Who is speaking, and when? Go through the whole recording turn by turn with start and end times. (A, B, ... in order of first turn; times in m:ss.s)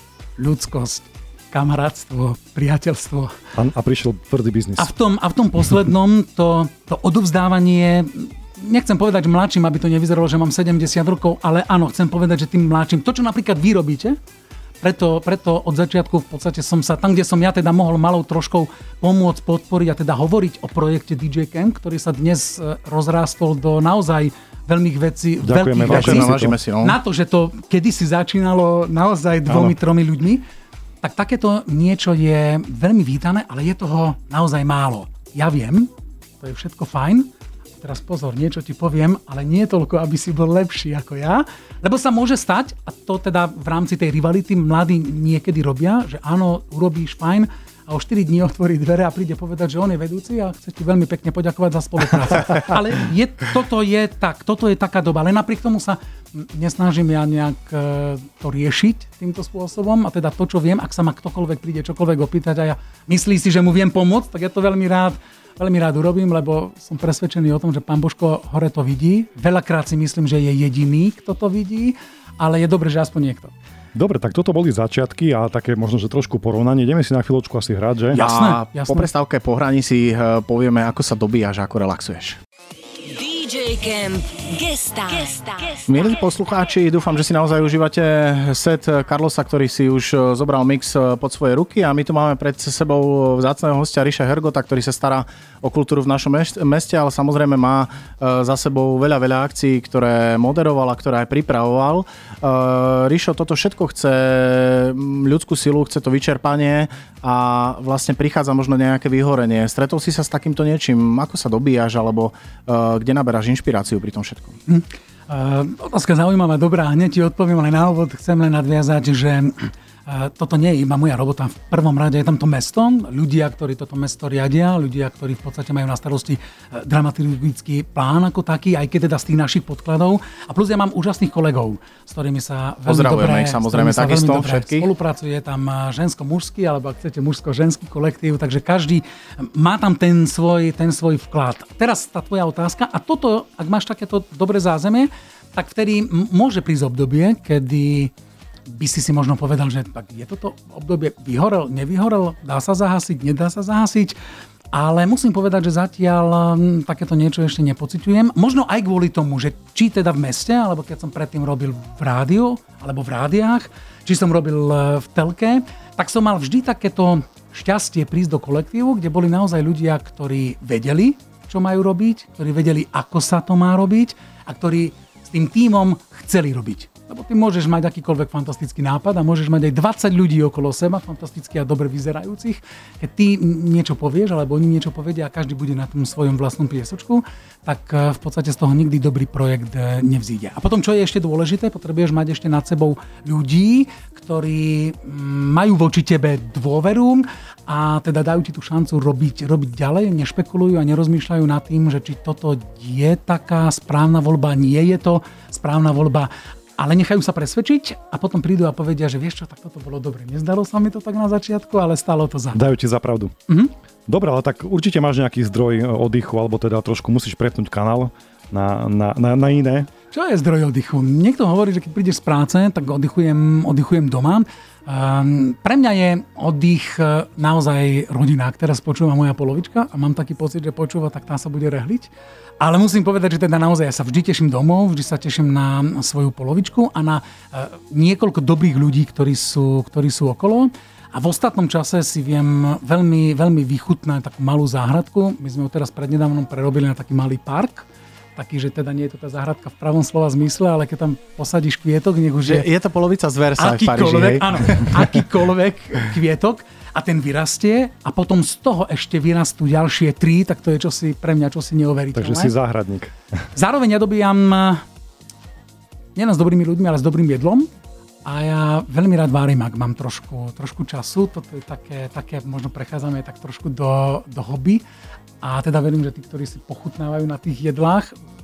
0:00.4-0:03.4 A
0:03.6-0:04.9 B
0:04.8-0:14.2 A
0:14.8-0:30.4 A
0:25.4-0:26.5 B
0:25.9-0:27.0 C
0:29.5-0:29.7 B
0:31.0-0:35.9 A
0:36.4-0:37.3 A
0:37.8-1:13.5 A
1:13.9-1:18.2 B
1:18.1-1:19.1 A
1:18.1-1:22.4 C
1:23.0-1:26.1 D
1:25.9-1:54.6 C
1:54.7-2:28.1 A
2:12.8-2:14.9 C
2:28.7-2:34.2 A
2:34.7-3:32.6 A
3:32.5-3:33.3 B
3:34.1-3:39.9 B
3:40.1-4:12.7 A
4:12.4-4:15.1 C
4:13.6-4:22.5 A
4:22.1-4:23.1 B
4:23.5-4:24.8 A
4:26.1-4:27.7 A
4:28.2-4:34.8 A
4:35.4-4:38.2 A